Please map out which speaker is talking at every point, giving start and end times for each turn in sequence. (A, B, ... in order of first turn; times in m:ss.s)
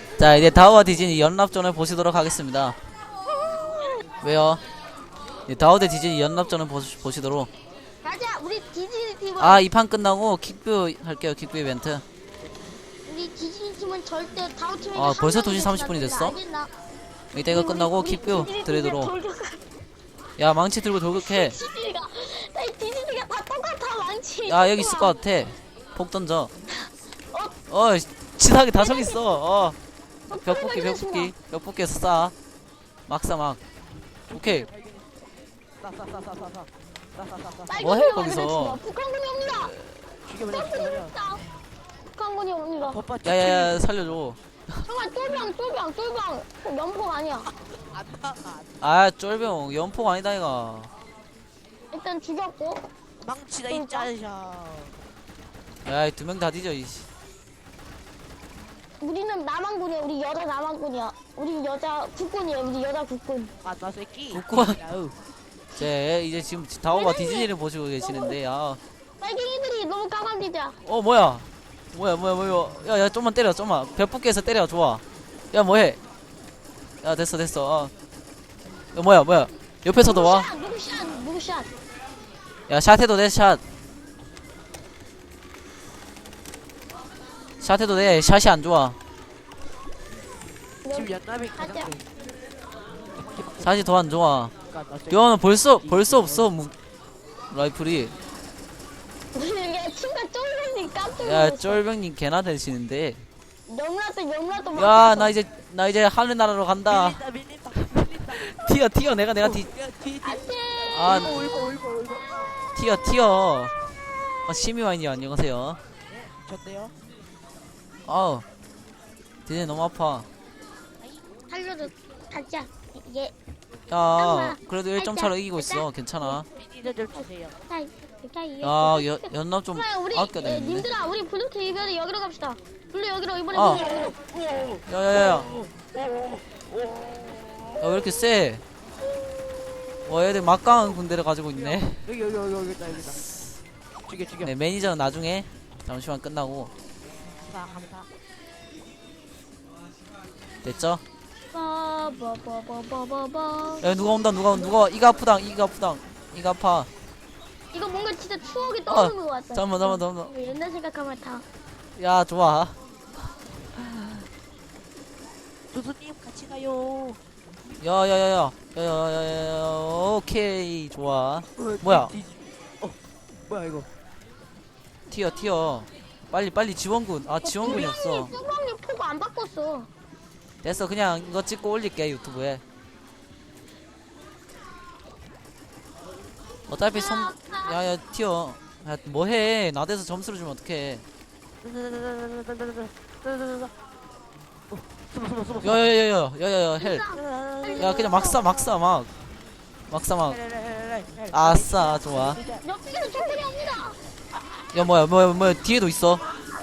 0:00.2-0:02.8 A
0:04.2-0:04.6 A
0:05.5-0:07.5 A
0:08.0-0:09.6 B
0:09.4-0:12.0 A
0:13.1-0:16.7 B
0:15.0-0:16.4 A
0:17.3-0:19.1 A
0:17.4-0:19.6 B
0:20.4-0:21.6 A
0:21.1-0:25.2 B
0:24.5-0:26.5 A
0:26.8-0:27.6 B
0:27.7-0:29.8 A
0:28.8-0:29.2 B
0:30.3-0:31.3 B
0:30.4-0:32.3 A
0:33.1-0:33.6 A
0:34.3-0:35.1 C
0:34.3-0:34.7 A
0:35.8-0:37.8 C
0:37.7-0:39.8 B
0:37.8-0:38.8 A
0:40.2-0:41.2 C
0:40.5-0:41.4 B
0:42.1-0:43.0 B
0:42.8-0:43.9 C
0:43.2-0:44.4 A
0:44.8-0:47.5 B
0:47.6-0:48.8 C
0:48.8-0:50.9 A
0:51.9-0:52.9 B
0:53.2-0:55.0 C
0:53.7-0:54.1 B
0:55.8-0:57.1 A
0:59.0-1:03.6 B
1:03.6-1:05.2 C
1:04.3-1:04.8 A
1:05.8-1:08.8 A
1:06.9-1:07.5 B
1:08.0-1:08.4 B
1:09.2-1:10.8 B
1:10.8-1:16.0 A
1:17.0-1:17.9 A
1:18.9-1:20.5 A
1:20.0-1:21.7 B
1:22.7-1:23.6 A
1:27.6-1:29.0 A
1:30.8-1:31.9 B
1:30.9-1:32.1 C
1:33.1-1:33.9 C
1:33.6-1:34.5 A
1:34.7-1:36.5 C
1:35.1-1:36.7 A
1:37.5-1:38.1 A
1:39.3-1:41.8 B
1:41.2-1:43.2 A
1:43.7-1:45.3 B
1:44.8-1:47.2 A
1:46.9-1:48.5 C
1:48.3-1:49.7 A
1:49.4-1:52.4 C
1:50.2-1:51.6 B
1:50.9-1:51.3 A
1:52.8-1:53.8 A
1:54.5-1:55.8 A
1:56.1-1:57.0 C
1:58.1-1:58.4 A
1:59.5-2:00.3 A
2:01.5-2:03.3 B
2:03.9-2:06.5 A
2:04.2-2:06.4 B
2:06.6-2:07.6 C
2:07.7-2:14.2 B
2:08.6-2:10.9 A
2:13.5-2:13.8 A
2:13.9-2:17.8 C
2:14.9-2:15.5 A
2:17.8-2:18.6 A
2:20.1-2:22.0 A
2:21.5-2:23.2 C
2:24.1-2:24.5 C
2:24.4-2:26.7 A
2:27.4-2:28.1 C
2:30.6-2:31.0 A
2:31.5-2:33.9 B
2:33.8-2:36.9 A
2:37.7-2:41.4 B
2:38.9-2:40.3 A
2:42.0-2:42.8 A
2:45.7-2:47.2 C
2:47.8-2:52.1 A
2:51.6-2:53.9 C
2:55.1-2:58.3 A
2:57.4-2:59.9 B
2:57.6-2:58.0 C
3:00.6-3:02.6 A
3:06.7-3:11.0 A
3:06.9-3:07.8 B
3:11.6-3:13.7 C
3:14.7-3:15.9 C
3:15.6-3:17.0 A
3:16.8-3:18.6 B
3:17.1-3:18.8 C
3:17.8-3:19.1 A
3:19.9-3:20.4 A
3:20.3-3:22.6 C
3:21.3-3:22.4 A
3:22.6-3:24.0 B
3:24.7-3:26.2 A